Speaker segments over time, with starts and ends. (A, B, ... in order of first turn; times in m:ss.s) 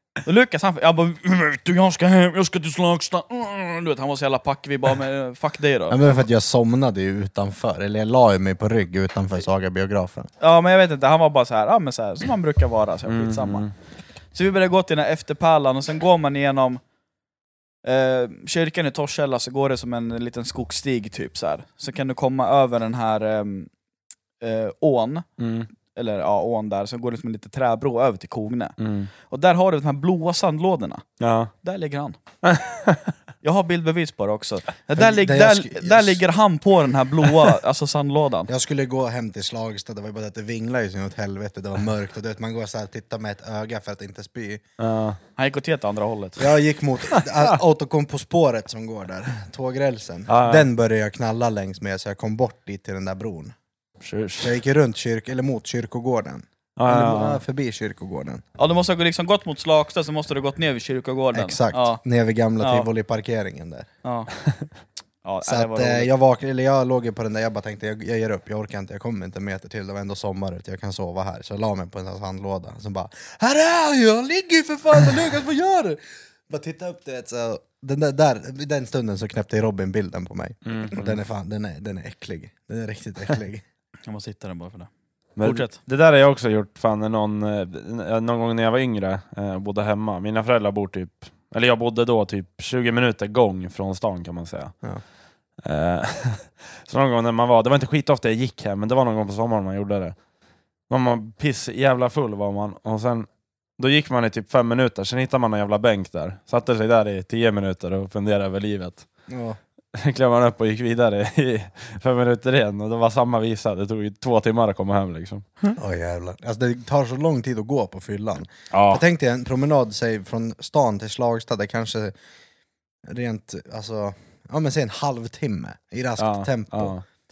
0:00.2-0:06.2 A
0:05.9-0:10.3 B
0:10.4-0:13.6 A
0:13.1-0:13.7 C
0:14.3-0:16.8 A
0:17.8-0:23.7 A
0:24.4-0:25.2 A
0:25.4-0:25.7 C
0:25.9-0:28.8 A
0:28.8-0:29.1 C
0:29.3-0:31.0 A
0:31.2-0:31.5 C
0:31.6-0:32.2 A
0:32.4-0:33.1 C
0:33.4-0:38.5 A
0:35.0-0:36.2 B
0:38.5-0:44.6 B
0:44.8-0:45.2 C
0:45.4-0:46.5 A
0:46.4-0:53.5 B
0:50.3-0:50.7 C
0:54.0-0:54.5 C
0:54.4-0:58.4 B
0:56.8-0:57.4 C
0:58.6-1:02.0 A
1:01.3-1:03.9 B
1:02.6-1:02.9 A
1:04.0-1:04.3 A
1:05.2-1:06.1 A
1:05.4-1:23.6 B
1:20.6-1:21.2 C
1:24.1-1:24.9 A
1:25.4-1:34.7 C
1:25.4-1:25.7 A
1:35.6-1:40.1 C
1:40.9-1:43.3 C
1:43.8-1:49.0 C
1:49.3-1:49.6 B
1:49.9-1:55.4 C
1:55.7-2:02.1 B
1:58.7-1:59.0 C
2:03.1-2:06.9 B
2:06.2-2:07.0 C